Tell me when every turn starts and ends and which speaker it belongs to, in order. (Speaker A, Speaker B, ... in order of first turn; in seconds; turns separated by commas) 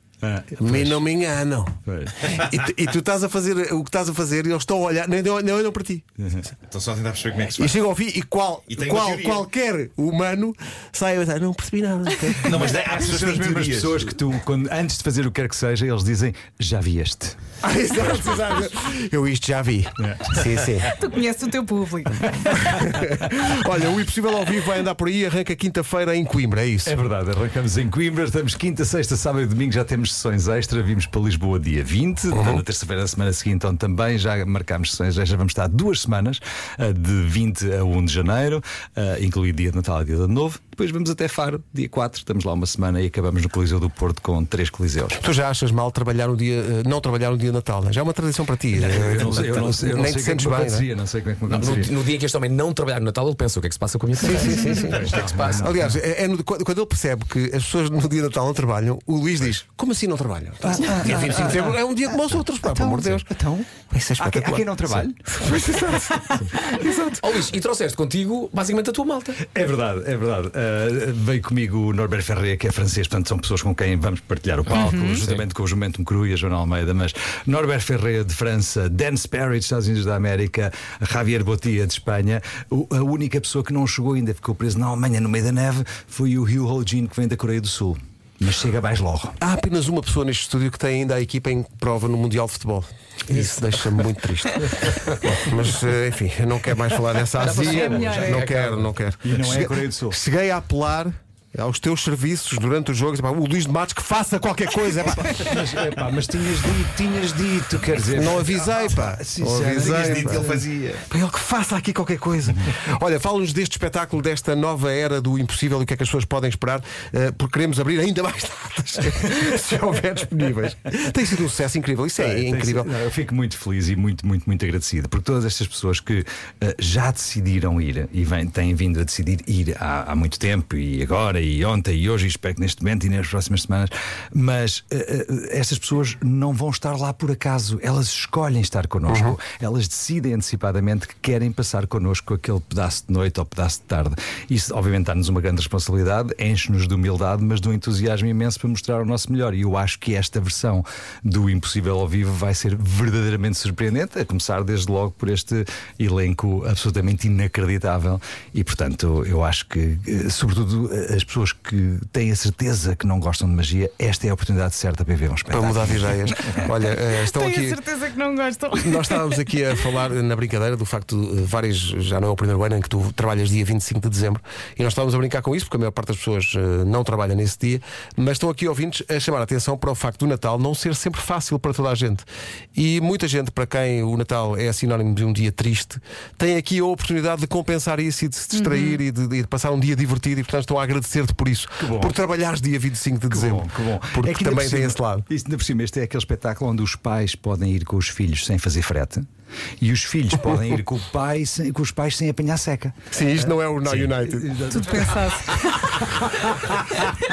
Speaker A: 0.2-1.0, Speaker B: 0.6-1.7, Speaker A: 1.9-2.2, Speaker B: 2.2-6.0, Speaker C: 6.7-7.8, Speaker B: 7.5-12.8, Speaker C: 8.7-9.5, Speaker C: 12.4-14.1, Speaker A: 12.6-17.4, Speaker B: 17.6-20.9, Speaker A: 20.0-20.4, Speaker D: 21.0-22.6, Speaker B: 22.7-27.0, Speaker A: 26.8-45.2, Speaker B: 32.3-32.6, Speaker B: 45.2-50.9, Speaker A: 48.7-51.9, Speaker E: 51.5-55.7, Speaker B: 51.6-51.9, Speaker B: 54.2-63.3, Speaker A: 54.9-55.9, Speaker A: 60.6-65.2, Speaker B: 63.8-67.4, Speaker E: 67.2-69.4, Speaker A: 69.5-89.3, Speaker D: 74.7-75.2, Speaker E: 75.1-75.4, Speaker B: 89.4-105.5, Speaker E: 97.4-98.8, Speaker A: 97.5-98.6, Speaker D: 97.8-98.3, Speaker A: 99.2-100.2, Speaker A: 105.1-110.7, Speaker B: 108.1-122.9, Speaker C: 110.0-111.0, Speaker A: 122.2-166.7, Speaker B: 139.1-139.3, Speaker B: 165.5-167.8, Speaker D: 167.1-169.4, Speaker B: 168.8-195.3, Speaker D: 188.5-189.0, Speaker A: 191.8-192.1, Speaker A: 193.3-199.2, Speaker A: 199.8-206.1, Speaker B: 203.1-204.6, Speaker D: 204.7-206.0